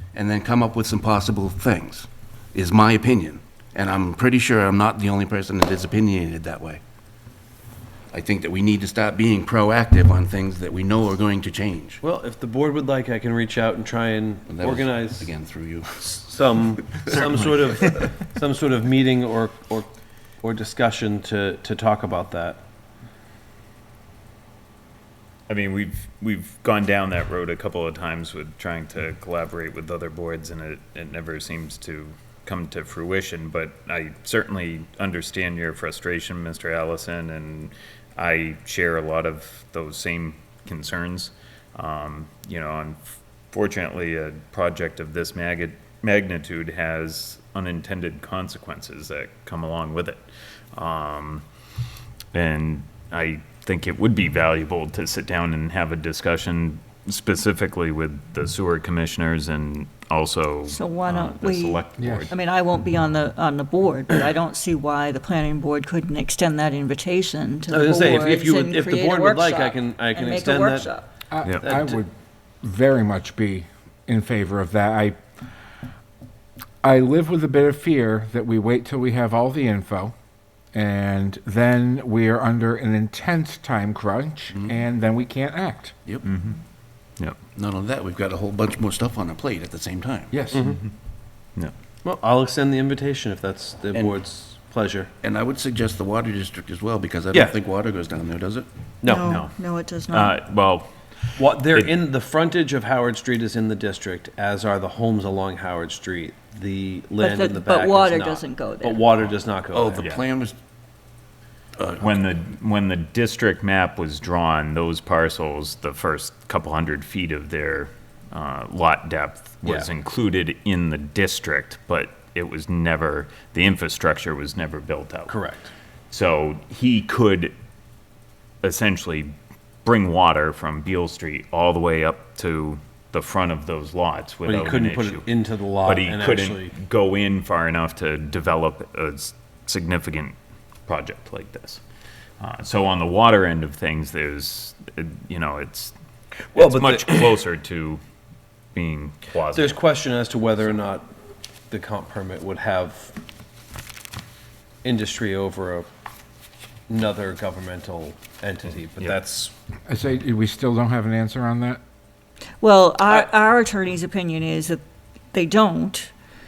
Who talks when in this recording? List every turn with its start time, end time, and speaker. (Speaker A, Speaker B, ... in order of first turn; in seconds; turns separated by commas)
Speaker A: 0.1-6.8, Speaker A: 8.1-12.0, Speaker B: 12.0-15.3, Speaker A: 14.5-16.2, Speaker B: 16.1-19.9, Speaker A: 16.8-17.9, Speaker B: 20.4-22.6, Speaker C: 25.5-51.4, Speaker C: 52.3-62.4, Speaker D: 60.7-71.0, Speaker E: 62.0-62.3, Speaker B: 67.7-70.9, Speaker E: 71.3-75.2, Speaker B: 71.6-72.0, Speaker E: 76.8-80.1, Speaker E: 80.7-86.0, Speaker A: 84.5-84.8, Speaker C: 86.2-86.6, Speaker A: 87.5-90.3, Speaker E: 90.3-90.7, Speaker B: 90.5-90.8, Speaker B: 92.0-95.1, Speaker A: 95.2-98.7, Speaker B: 99.0-99.4, Speaker D: 99.1-100.3, Speaker C: 99.2-99.5, Speaker C: 100.1-101.9, Speaker B: 101.3-110.0, Speaker D: 107.2-109.0, Speaker A: 109.7-110.5, Speaker C: 110.0-110.2, Speaker A: 111.8-112.1, Speaker C: 112.0-125.3, Speaker B: 125.3-125.7, Speaker C: 126.1-127.5, Speaker C: 128.6-140.3, Speaker B: 134.4-136.7, Speaker C: 140.9-141.8, Speaker C: 142.4-145.9, Speaker C: 146.5-148.0, Speaker B: 146.5-147.4, Speaker C: 148.7-149.8, Speaker B: 149.5-151.1, Speaker B: 151.7-153.1, Speaker B: 154.8-155.9, Speaker B: 156.9-159.5, Speaker C: 159.0-159.5, Speaker E: 159.9-161.8, Speaker D: 162.6-164.8, Speaker D: 165.3-166.1